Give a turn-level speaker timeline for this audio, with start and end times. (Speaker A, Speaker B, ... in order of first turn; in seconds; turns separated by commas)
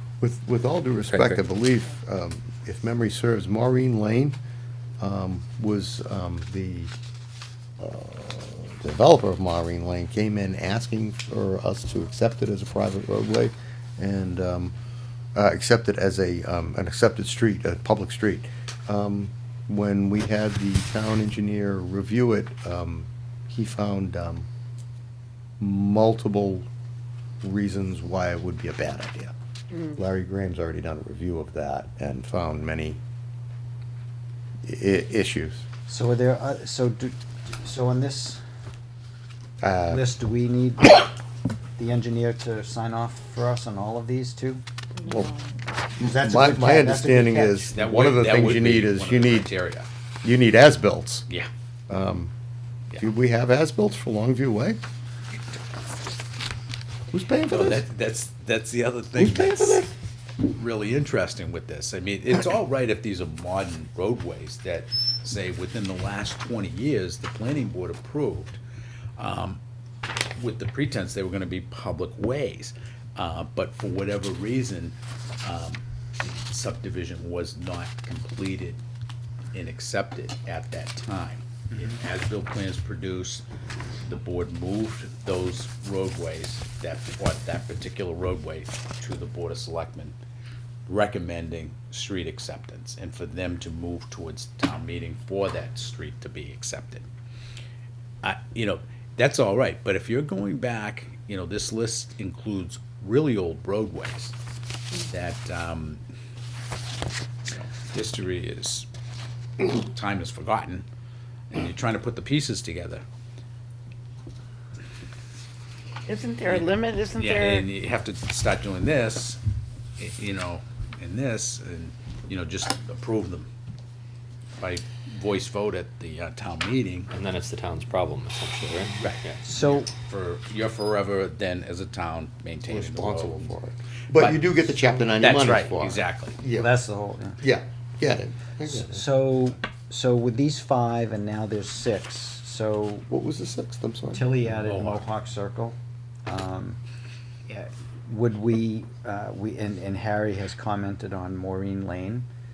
Speaker A: 0.2-4.4, Speaker B: 1.1-1.4, Speaker A: 5.0-6.9, Speaker A: 7.8-14.7, Speaker A: 15.3-24.4, Speaker A: 25.6-26.7, Speaker A: 27.4-29.3, Speaker A: 29.9-33.0, Speaker A: 34.6-35.6, Speaker C: 35.9-38.4, Speaker A: 39.6-40.1, Speaker C: 39.9-41.1, Speaker C: 41.8-44.6, Speaker D: 45.0-45.5, Speaker A: 45.0-45.3, Speaker A: 46.0-49.5, Speaker C: 46.0-47.8, Speaker E: 47.7-49.9, Speaker A: 50.2-51.3, Speaker A: 51.9-52.3, Speaker A: 53.0-54.8, Speaker A: 57.1-57.8, Speaker E: 57.5-59.9, Speaker A: 59.1-59.9, Speaker E: 60.4-68.6, Speaker E: 69.2-69.6, Speaker E: 70.4-78.8, Speaker E: 79.5-83.4, Speaker E: 84.0-90.2, Speaker E: 90.9-97.0, Speaker E: 98.2-104.3, Speaker E: 105.0-106.0, Speaker E: 107.4-108.9, Speaker E: 109.6-110.8, Speaker E: 111.5-113.0, Speaker D: 116.0-117.7, Speaker E: 116.5-119.4, Speaker E: 120.0-123.5, Speaker E: 124.6-127.1, Speaker B: 127.1-129.4, Speaker E: 129.0-133.5, Speaker C: 129.4-129.9, Speaker A: 132.7-136.7, Speaker E: 134.1-134.5, Speaker E: 135.2-136.4, Speaker C: 136.5-137.4, Speaker A: 137.4-139.1, Speaker C: 138.6-143.1, Speaker A: 143.1-144.3, Speaker C: 144.1-146.8, Speaker E: 144.5-145.0, Speaker C: 147.5-152.3